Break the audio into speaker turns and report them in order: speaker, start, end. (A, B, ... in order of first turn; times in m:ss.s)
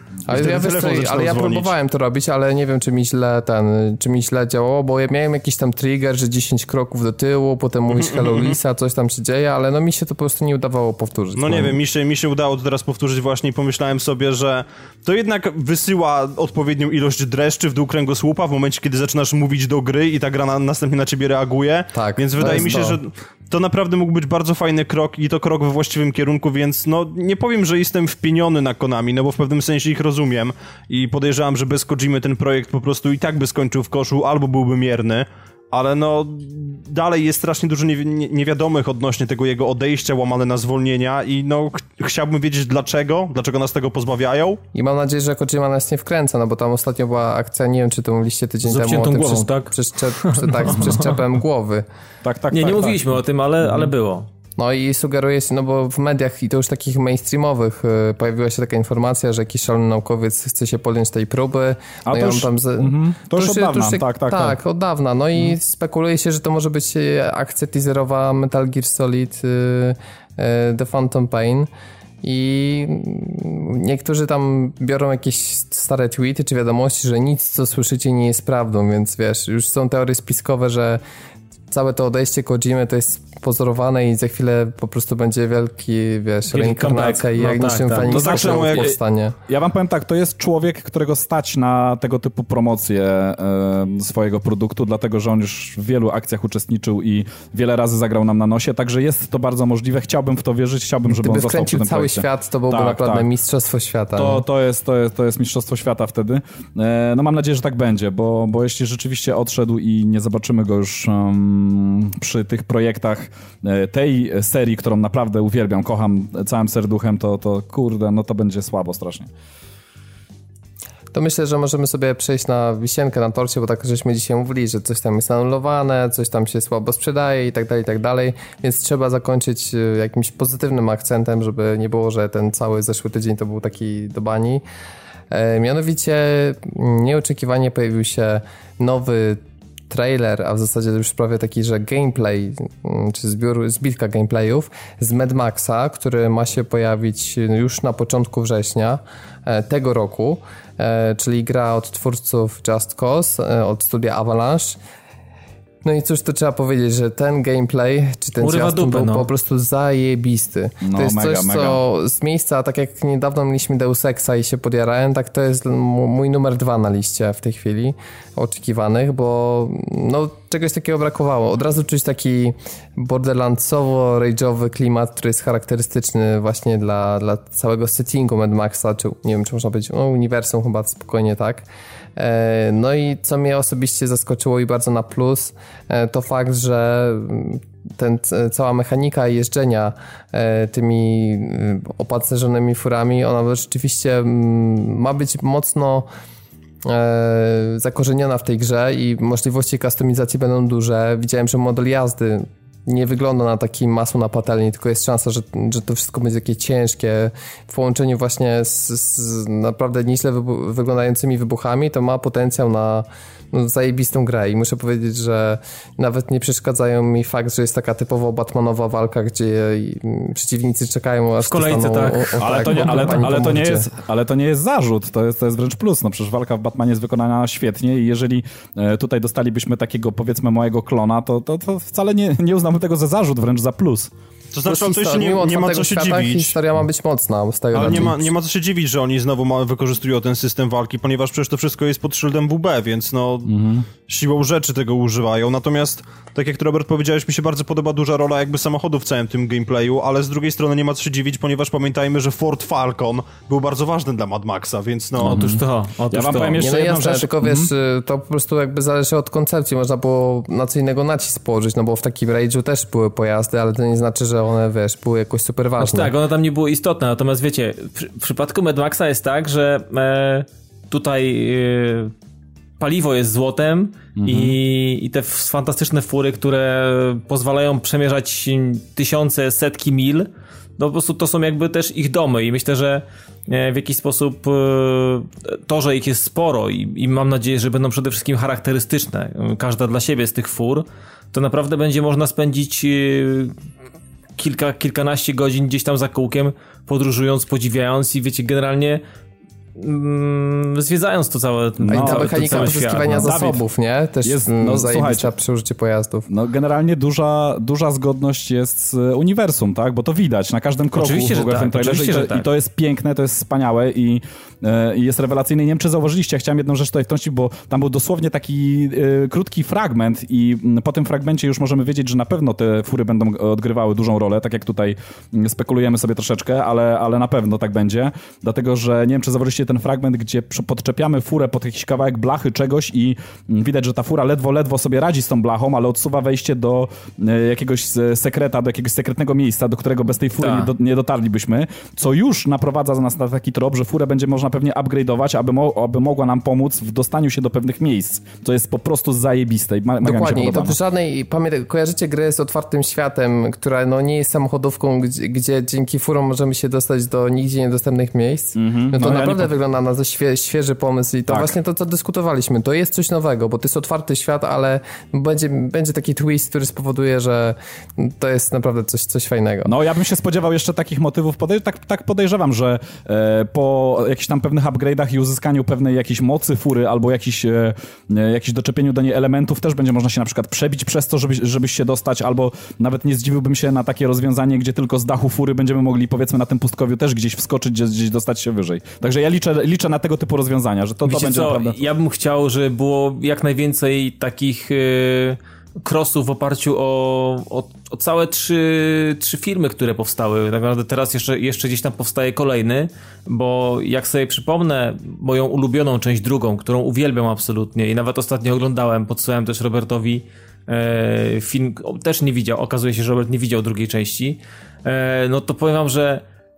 0:00.3-0:11.8 A
0:00.3-0:01.7 B
0:07.9-0:08.6 B
0:11.4-0:44.6 B
0:21.9-0:23.0 A
0:22.4-0:22.8 C
0:44.7-0:51.8 A
0:48.6-0:51.1 D
0:52.2-0:53.9 C
0:52.5-0:54.3 D
0:54.6-1:11.7 A
1:02.1-1:04.6 C
1:12.2-1:21.0 A
1:21.7-1:29.4 A
1:26.5-1:28.3 D
1:28.0-1:43.3 C
1:28.2-1:28.9 B
1:41.1-1:44.4 A
1:44.1-1:59.3 C
2:01.1-2:14.6 A
2:15.3-2:34.8 A
2:35.8-3:01.7 A
2:38.4-2:39.3 D
2:40.8-2:41.8 C
3:02.2-3:16.1 A
3:16.8-3:43.9 A
3:41.4-3:43.3 D
3:42.4-3:54.1 C
3:54.5-3:56.6 B
3:54.6-3:58.2 A
3:57.7-4:15.4 B
3:57.8-3:58.2 C
4:03.4-4:03.9 C
4:15.2-4:17.7 C
4:15.2-4:16.6 D
4:16.6-4:26.1 A
4:25.8-4:32.1 D
4:32.8-4:53.6 D
4:34.2-4:34.6 C
4:54.4-4:59.0 D
4:59.8-5:03.5 D
5:01.9-5:03.6 C
5:01.9-5:06.3 A
5:04.2-5:05.3 C
5:06.3-5:50.8 C
5:10.9-5:12.5 D
5:40.4-5:40.7 D
5:50.0-6:09.7 A
5:58.6-5:59.5 C
6:01.3-6:01.6 C
6:09.6-6:31.8 C
6:31.1-6:56.2 D